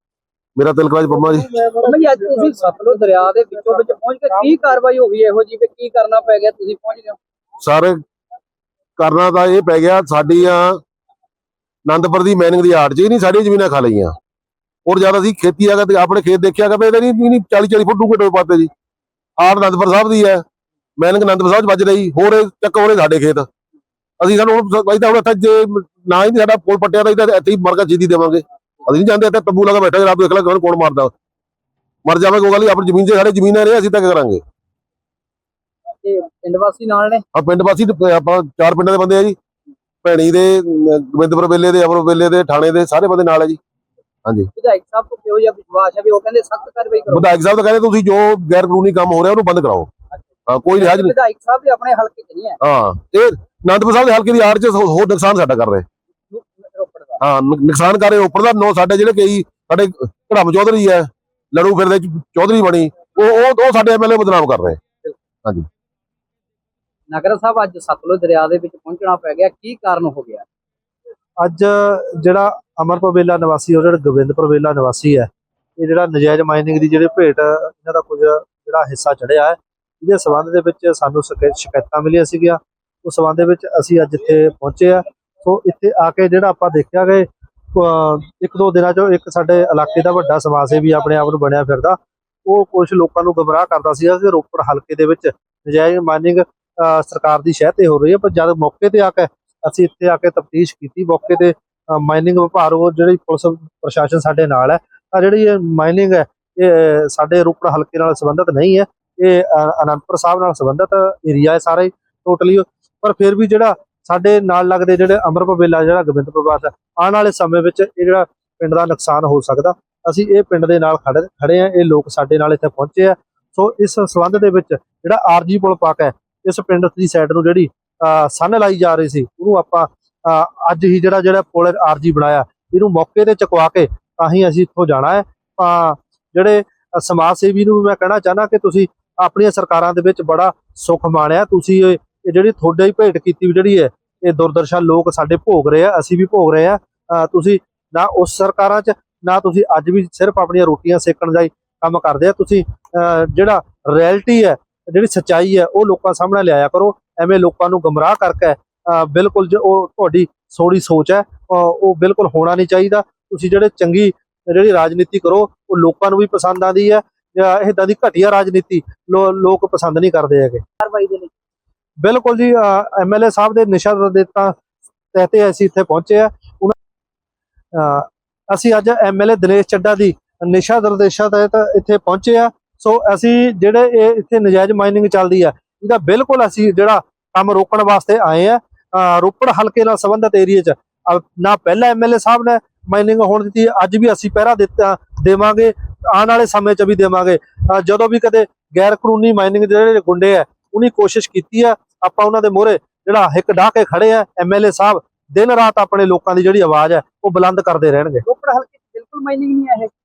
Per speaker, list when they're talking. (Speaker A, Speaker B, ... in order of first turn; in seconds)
Speaker A: 0.6-1.5, 7.6-8.0, 9.0-10.8, 11.9-14.1, 14.8-18.7, 19.4-20.4, 21.0-23.5, 24.2-31.1, 32.1-34.4, 37.3-39.4, 40.0-43.6, 47.1-49.9, 50.5-51.1, 52.6-55.9, 57.2-64.8
Speaker B: 1.1-4.8, 71.4-170.6, 172.0-174.6, 175.1-176.7, 177.7-208.2
Speaker C: 1.8-7.2, 36.0-37.2, 44.5-47.3, 50.1-52.6, 56.3-57.2, 67.1-70.4, 170.8-171.3, 208.2-209.9